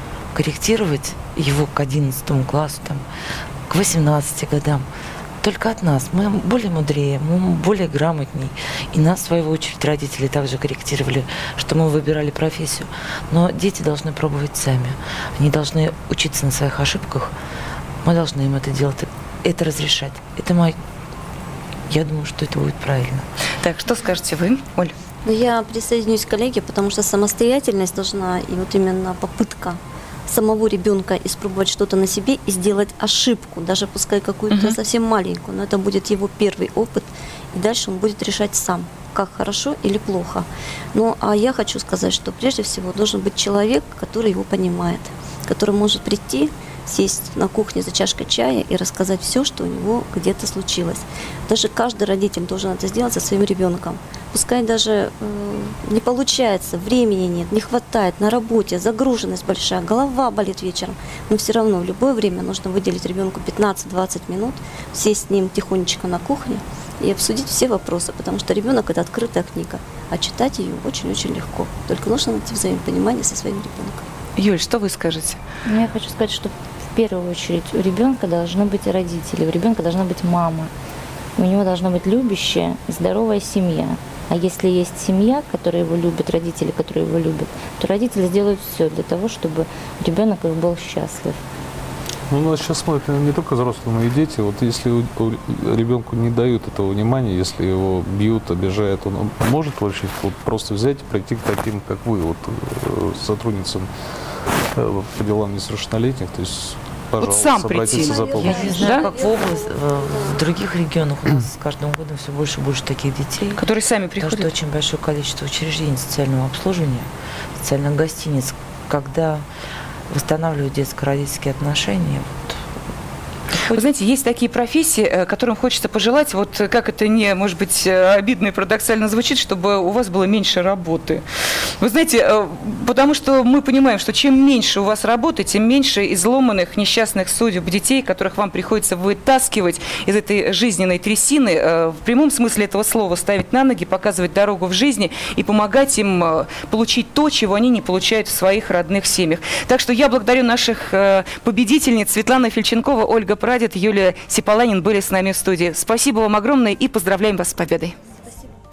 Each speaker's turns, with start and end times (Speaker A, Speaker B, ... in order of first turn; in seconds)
Speaker A: 0.3-3.0, 3.7-4.9, 5.4-17.3, 18.0-20.8, 21.9-23.3, 108.3-113.6, 114.2-119.5, 120.1-122.6
Speaker B: 23.6-24.9, 34.5-34.8, 74.4-75.4, 107.2-109.1, 113.6-114.5, 123.7-131.2, 131.8-157.9
Speaker C: 25.2-74.0, 107.9-110.5
Speaker D: 75.7-80.7, 81.4-91.4
Speaker E: 92.3-103.9, 104.7-109.0